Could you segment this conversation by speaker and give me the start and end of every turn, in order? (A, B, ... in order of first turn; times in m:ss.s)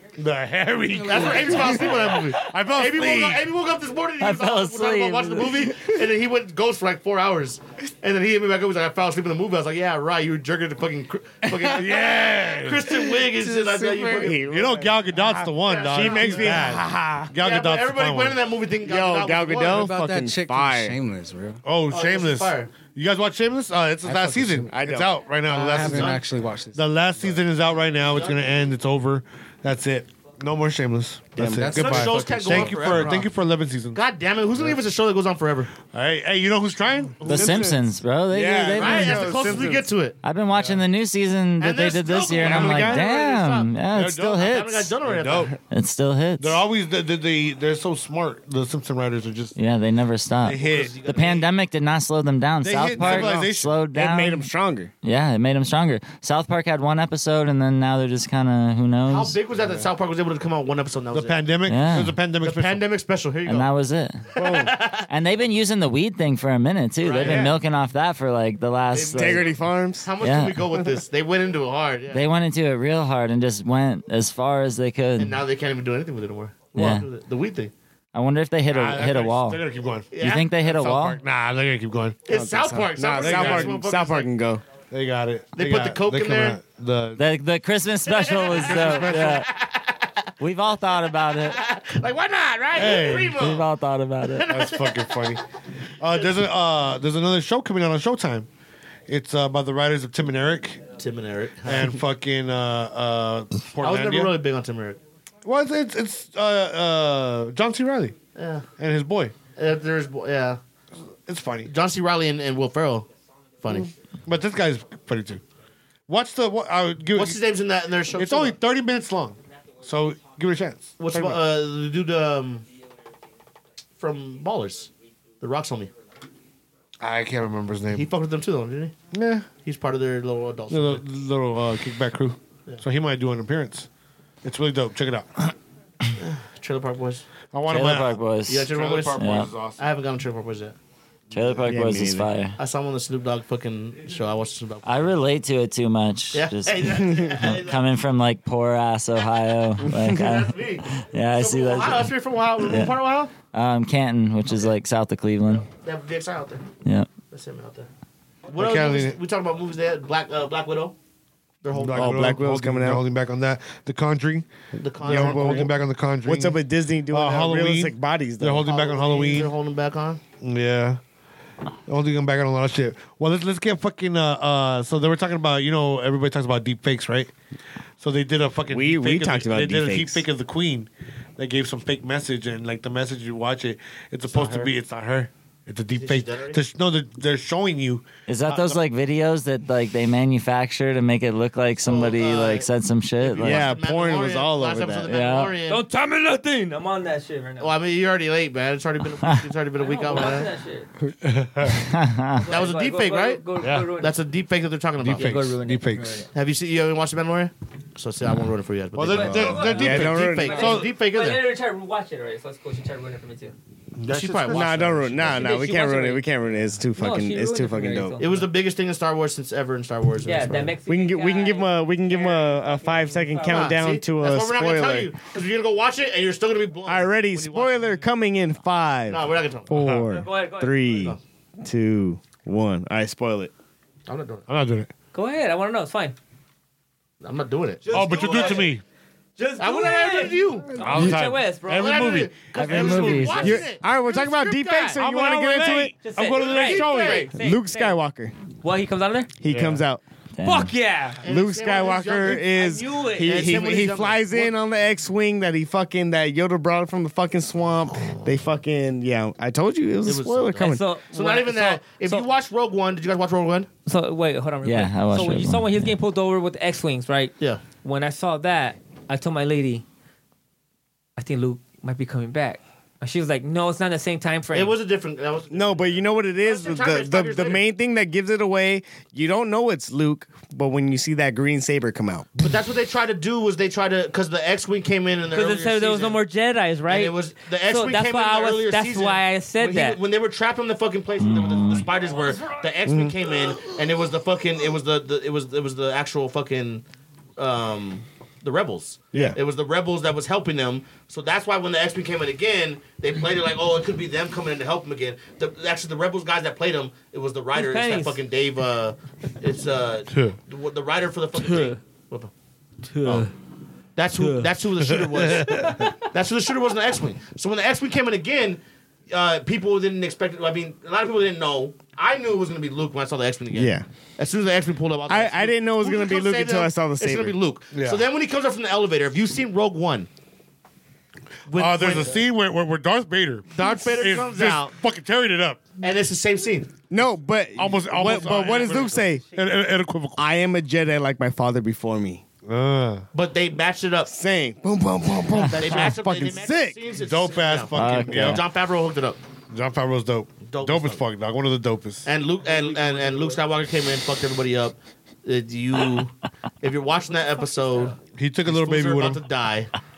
0:00.2-0:03.4 A
0:00.9-0:02.0 B
0:01.0-0:14.5 C
0:04.2-0:05.8 D
0:11.6-0:13.0 A
0:13.2-0:17.3 E
0:14.4-0:18.4 A
0:15.6-0:16.8 C
0:17.4-0:19.9 C
0:18.8-0:21.0 E
0:19.6-0:21.6 B
0:21.6-0:26.2 A
0:21.9-0:22.8 C
0:24.0-0:25.2 E
0:24.1-0:24.4 B
0:25.4-0:27.3 B
0:25.5-0:26.2 C
0:26.7-0:34.0 A
0:28.1-0:28.4 C
0:31.4-0:33.3 C
0:31.4-0:31.7 E
0:31.4-0:33.1 B
0:34.0-0:35.8 C
0:35.8-0:37.5 A
0:37.2-0:37.8 E
0:37.2-0:39.4 D
0:38.3-0:39.9 E
0:38.8-0:40.2 C
0:40.2-0:44.9 D
0:40.5-0:40.8 A
0:41.6-0:43.8 C
0:42.4-0:43.0 E
0:43.9-0:44.4 A
0:44.4-0:45.5 C
0:45.0-0:45.6 A
0:45.7-0:46.6 D
0:46.4-0:49.6 A
0:49.6-0:54.5 D
0:50.4-0:50.9 A
0:50.5-0:51.5 C
0:52.6-0:53.8 A
0:53.0-0:54.9 E
0:55.0-0:59.4 D
0:59.1-1:01.4 C
1:01.1-1:02.9 A
1:01.7-1:02.2 D
1:02.4-1:03.7 C
1:03.5-1:04.2 D
1:04.4-1:05.1 C
1:04.4-1:04.7 E
1:05.1-1:09.5 D
1:07.0-1:07.5 C
1:08.9-1:12.2 C
1:09.1-1:10.1 E
1:10.2-1:10.6 D
1:12.1-1:15.4 D
1:15.2-1:17.7 C
1:16.8-1:17.1 D
1:18.1-1:19.6 D
1:18.7-1:22.2 A
1:20.1-1:20.5 C
1:20.2-1:21.2 D
1:22.3-1:24.3 C
1:22.3-1:24.6 E
1:23.2-1:23.8 A
1:24.9-1:27.2 A
1:25.6-1:26.6 C
1:27.2-1:29.5 D
1:28.1-1:30.1 C
1:28.6-1:29.5 A
1:30.4-1:31.6 D
1:31.3-1:33.7 C
1:32.8-1:33.4 A
1:33.3-1:34.5 D
1:34.3-1:35.4 C
1:34.5-1:35.4 A
1:36.0-1:38.5 A
1:39.1-1:40.9 A
1:41.0-1:41.9 C
1:41.6-1:44.4 A
1:43.8-1:45.0 C
1:45.4-1:48.2 A
1:48.4-1:48.7 C
1:48.8-1:49.4 A
1:49.5-1:50.6 C
1:51.3-1:51.7 A
1:51.7-1:53.1 C
1:53.6-1:53.9 C
1:53.8-1:55.4 A
1:56.1-1:57.4 A
1:57.2-1:58.6 C
1:58.2-2:01.4 A
2:01.0-2:02.6 C
2:04.0-2:04.9 C
2:05.4-2:05.9 C
2:07.0-2:08.1 A
2:07.9-2:09.0 C
2:09.1-2:09.5 A
2:09.6-2:11.0 C
2:10.7-2:13.9 A
2:14.4-2:15.5 A
2:16.2-2:17.2 C
2:17.5-2:18.2 A
2:17.7-2:19.5 D
2:18.5-2:19.2 C
2:18.7-2:19.8 A
2:19.8-2:20.8 C
2:21.3-2:22.6 D
2:21.6-2:22.3 E
2:22.6-2:25.1 C
2:24.8-2:32.1 D
2:26.3-2:27.8 C
2:30.0-2:33.3 C
2:32.7-2:35.6 D
2:35.5-2:36.6 C
2:37.3-2:37.9 C
2:38.5-2:41.0 C
2:38.6-2:39.2 A
2:41.6-2:42.4 C
2:41.7-2:44.5 A
2:41.9-2:43.0 E
2:44.8-2:45.7 C
2:45.0-2:46.6 A
2:45.0-2:45.7 E
2:46.2-2:48.7 E
2:47.1-2:49.5 A
2:48.6-2:50.2 C
2:50.4-2:51.0 A
2:51.9-2:57.3 A
2:58.0-3:08.8 A
2:58.7-3:00.2 E
3:04.3-3:04.7 C
3:06.0-3:06.6 C
3:08.3-3:13.7 D
3:11.8-3:12.7 C
3:13.2-3:15.8 C
3:13.4-3:15.1 E
3:15.1-3:15.5 D
3:15.7-3:17.7 F
3:17.6-3:20.5 C
3:19.8-3:20.9 F
3:21.2-3:21.9 A
3:21.7-3:22.4 D
3:22.4-3:24.2 F
3:22.5-3:25.4 C
3:23.6-3:23.9 A
3:25.0-3:26.2 A
3:25.0-3:26.3 F
3:26.3-3:31.5 C
3:29.0-3:31.0 A
3:29.1-3:33.5 F
3:29.2-3:30.8 E
3:34.0-3:35.4 A
3:34.1-3:34.9 C
3:34.5-3:38.2 E
3:35.3-3:36.2 F
3:37.0-3:38.5 F
3:38.2-3:40.7 C
3:40.2-3:43.8 F
3:40.9-3:45.1 E
3:43.4-3:48.0 C
3:46.9-3:53.5 E
3:49.1-3:49.7 C
3:49.7-3:50.1 A
3:50.0-3:51.1 F
3:54.1-3:54.4 C
3:54.5-3:54.9 A
3:55.1-3:56.2 F
3:57.2-3:58.5 C
3:57.8-3:58.8 F
3:57.9-3:58.8 A
3:59.4-4:02.2 F
3:59.6-4:00.8 C
4:00.8-4:03.4 A
4:01.7-4:05.0 C
4:02.5-4:03.6 D
4:02.7-4:03.3 F
4:03.4-4:05.9 E
4:05.0-4:07.3 A
4:06.0-4:08.0 F
4:06.3-4:07.3 C
4:07.3-4:08.3 E
4:08.6-4:09.3 F
4:09.4-4:10.0 E
4:09.5-4:09.8 A
4:10.4-4:10.7 D
4:10.4-4:11.2 F
4:11.2-4:12.6 C
4:11.2-4:20.9 E
4:12.4-4:13.6 F
4:13.2-4:14.5 C
4:20.0-4:23.7 C
4:20.6-4:22.2 F
4:23.9-4:29.8 F
4:24.6-4:25.9 D
4:31.2-4:34.8 F
4:34.5-4:37.6 C
4:35.5-4:42.3 E
4:42.4-4:46.2 C
4:45.3-4:50.0 F
4:46.9-4:56.8 C
4:51.2-4:51.9 D
4:52.9-4:53.2 E
4:57.4-5:12.3 C
5:07.5-5:08.2 F
5:10.1-5:10.4 A
5:11.4-5:11.8 F
5:12.9-5:13.3 F
5:14.0-5:30.1 C
5:14.2-5:14.5 F
5:14.9-5:15.8 A
5:15.5-5:16.0 F
5:23.5-5:23.9 E
5:25.1-5:27.4 E
5:27.7-5:28.0 A
5:31.5-5:32.2 C
5:31.5-5:35.6 A
5:33.5-5:34.8 C
5:35.8-5:36.7 C
5:36.9-5:39.2 E
5:37.6-5:40.2 A
5:38.6-5:38.9 C
5:40.2-5:42.2 E
5:42.5-5:43.0 A
5:43.1-5:44.1 C
5:44.1-5:46.1 E
5:45.5-5:49.2 C
5:45.7-5:48.4 A
5:47.7-5:48.4 D
5:49.5-5:52.1 A
5:50.5-5:51.0 C
5:52.1-5:59.7 C
5:52.6-5:53.3 F
5:58.1-5:59.2 A